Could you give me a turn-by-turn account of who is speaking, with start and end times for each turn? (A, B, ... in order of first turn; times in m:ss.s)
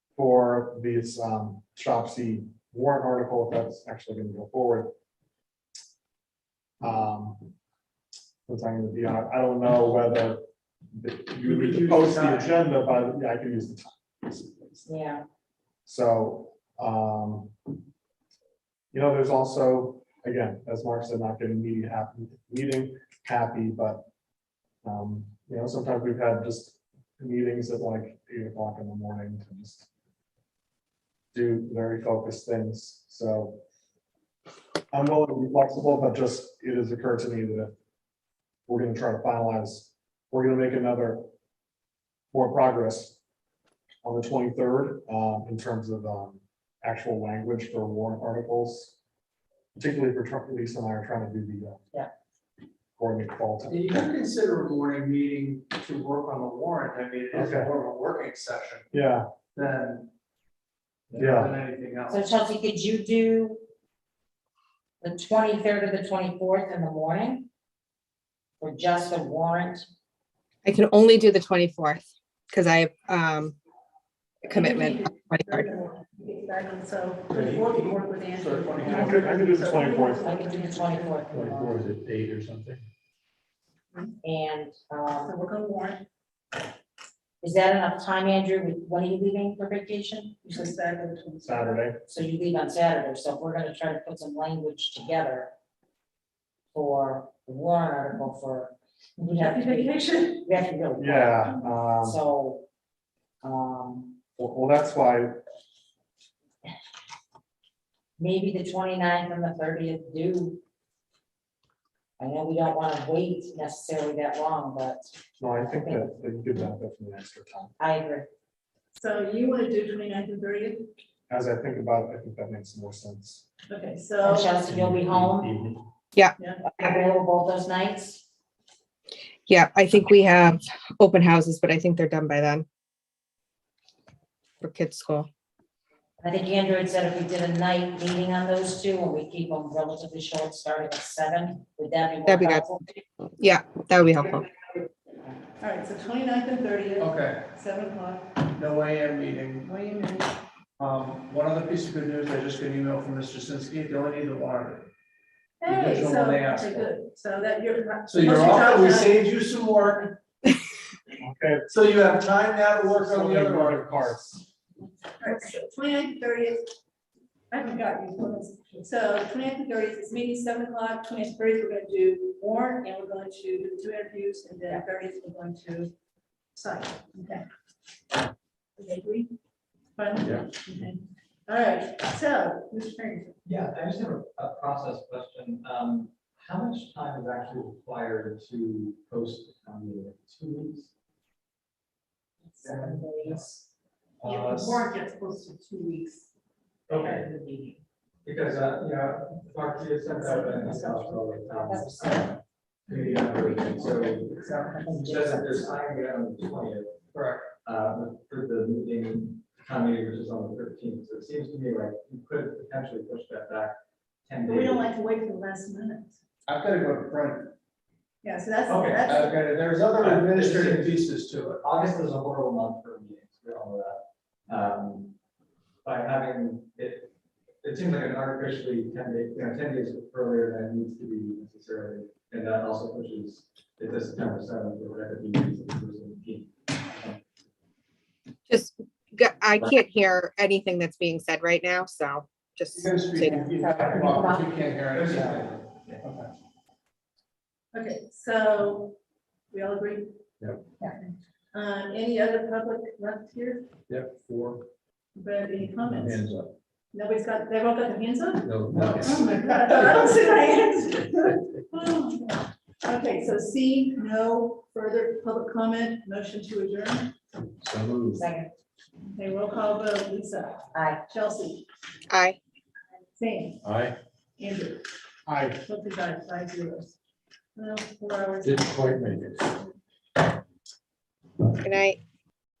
0:00.2-0:04.9 A
0:06.8-0:07.5 A
0:08.5-0:10.4 A
0:10.9-0:14.8 A
0:11.4-0:12.5 B
0:14.8-0:15.2 C
0:15.8-0:17.5 A
0:18.9-0:24.1 A
0:24.8-0:29.9 A
0:31.3-0:33.6 A
0:34.9-0:37.7 A
0:38.7-0:41.3 A
0:42.3-0:43.2 A
0:44.0-0:49.0 A
0:49.8-0:51.8 A
0:53.0-0:53.8 A
0:53.6-0:58.9 B
0:57.3-0:57.7 A
0:58.9-0:59.3 A
0:59.5-1:00.1 B
1:01.1-1:02.2 B
1:01.2-1:01.5 A
1:02.1-1:03.6 C
1:05.0-1:07.5 C
1:08.6-1:09.8 C
1:10.6-1:13.6 D
1:14.4-1:15.6 D
1:14.5-1:21.3 E
1:17.3-1:19.4 F
1:18.9-1:20.3 A
1:18.9-1:19.2 C
1:19.9-1:21.8 C
1:21.3-1:22.8 F
1:24.2-1:25.4 C
1:25.2-1:26.0 E
1:27.4-1:30.6 C
1:30.4-1:31.8 E
1:31.4-1:32.0 A
1:32.0-1:35.5 C
1:36.7-1:41.5 C
1:39.4-1:40.5 E
1:41.0-1:42.2 A
1:42.0-1:42.6 C
1:43.4-1:44.2 C
1:44.4-1:45.4 A
1:48.2-1:50.6 C
1:52.2-1:55.1 C
1:55.4-1:57.7 A
1:55.7-1:56.1 C
1:57.8-1:58.3 C
1:58.9-2:00.9 E
2:01.3-2:03.5 A
2:03.7-2:04.6 E
2:04.2-2:05.5 C
2:04.7-2:05.7 F
2:06.4-2:06.6 E
2:06.6-2:08.2 C
2:09.5-2:12.6 D
2:14.6-2:15.3 D
2:16.2-2:23.0 C
2:22.3-2:22.7 D
2:23.4-2:24.4 D
2:25.6-2:28.5 E
2:27.0-2:27.4 B
2:28.5-2:29.7 B
2:29.6-2:30.3 E
2:30.8-2:34.9 B
2:35.6-2:39.2 E
2:35.6-2:36.9 B
2:38.1-2:40.2 B
2:41.2-2:41.7 A
2:41.7-2:44.1 B
2:42.8-2:44.4 A
2:45.2-2:46.7 E
2:47.5-2:55.9 E
2:56.5-2:57.4 E
2:58.8-2:59.3 E
3:00.0-3:03.4 E
3:00.2-3:00.6 F
3:03.4-3:10.9 G
3:12.5-3:13.5 C
3:14.2-3:16.3 E
3:14.3-3:14.6 G
3:14.4-3:14.8 F
3:16.9-3:17.2 G
3:16.9-3:17.8 C
3:18.2-3:26.9 G
3:20.2-3:21.1 E
3:21.5-3:22.3 C
3:22.9-3:24.7 E
3:24.5-3:25.8 C
3:27.1-3:27.5 B
3:27.6-3:34.9 G
3:34.4-3:36.2 E
3:36.4-3:37.5 B
3:38.2-3:39.4 E
3:38.6-3:39.2 G
3:39.1-3:41.6 B
3:40.0-3:41.0 G
3:41.6-3:45.1 G
3:45.8-3:47.1 G
3:47.6-3:57.2 G
3:58.5-4:03.4 D
4:02.7-4:06.3 B
4:03.3-4:04.4 C
4:04.3-4:04.6 F
4:04.9-4:06.0 G
4:07.7-4:08.9 E
4:09.5-4:10.1 E
4:10.4-4:10.6 F
4:10.8-4:13.7 E
4:13.9-4:14.6 F
4:15.1-4:16.3 E
4:15.8-4:16.5 F
4:16.9-4:27.1 E
4:18.4-4:20.2 F
4:27.6-4:28.2 F
4:28.1-4:28.5 C
4:29.1-4:31.6 E
4:30.7-4:31.0 C
4:32.1-4:32.4 D
4:33.2-4:33.6 E
4:33.6-4:34.0 F
4:34.4-4:34.8 E
4:35.2-4:35.6 A
4:35.6-4:36.9 E
4:37.6-4:39.7 E
4:38.4-4:39.6 F
4:41.6-4:42.0 D